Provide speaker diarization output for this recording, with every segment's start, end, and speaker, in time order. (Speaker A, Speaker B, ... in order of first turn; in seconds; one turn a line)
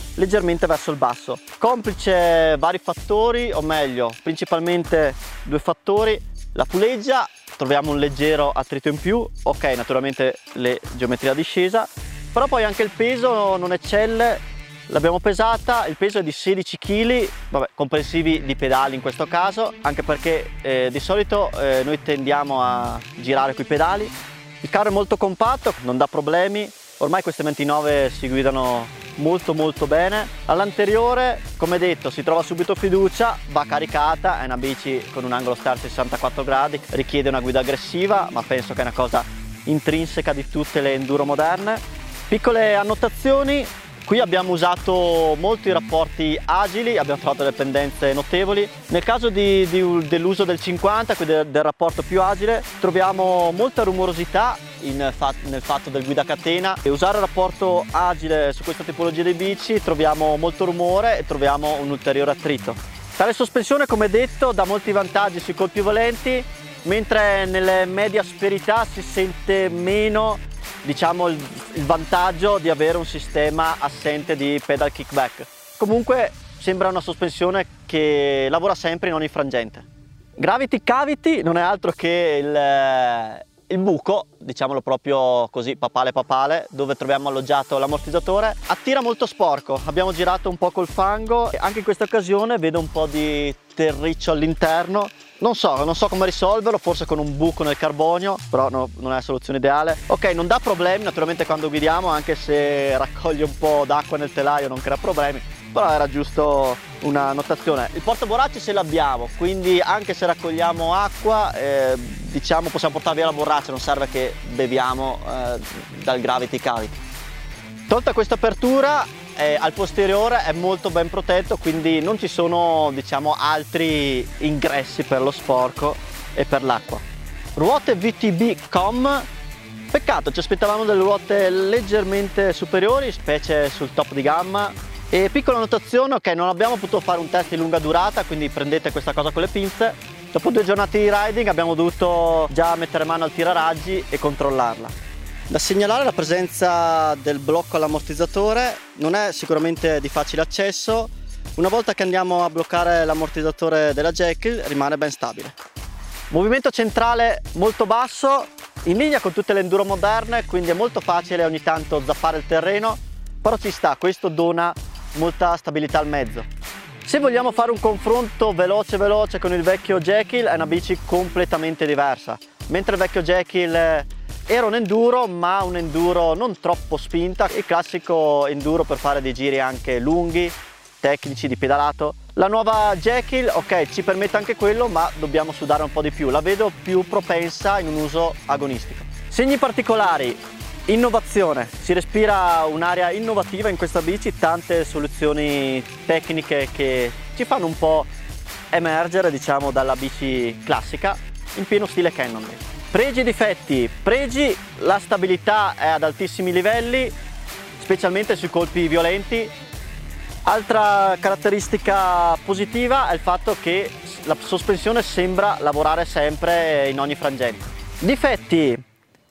Speaker A: 0.1-79.8
Speaker A: 80.4-117.0
Speaker A: 117.9-127.0
Speaker A: 127.5-129.3
Speaker A: 129.9-144.9
Speaker A: 145.5-155.6
Speaker A: 156.3-166.4
Speaker A: 167.0-198.1
Speaker A: 198.7-207.1
Speaker A: 207.8-209.5
Speaker A: 210.4-218.8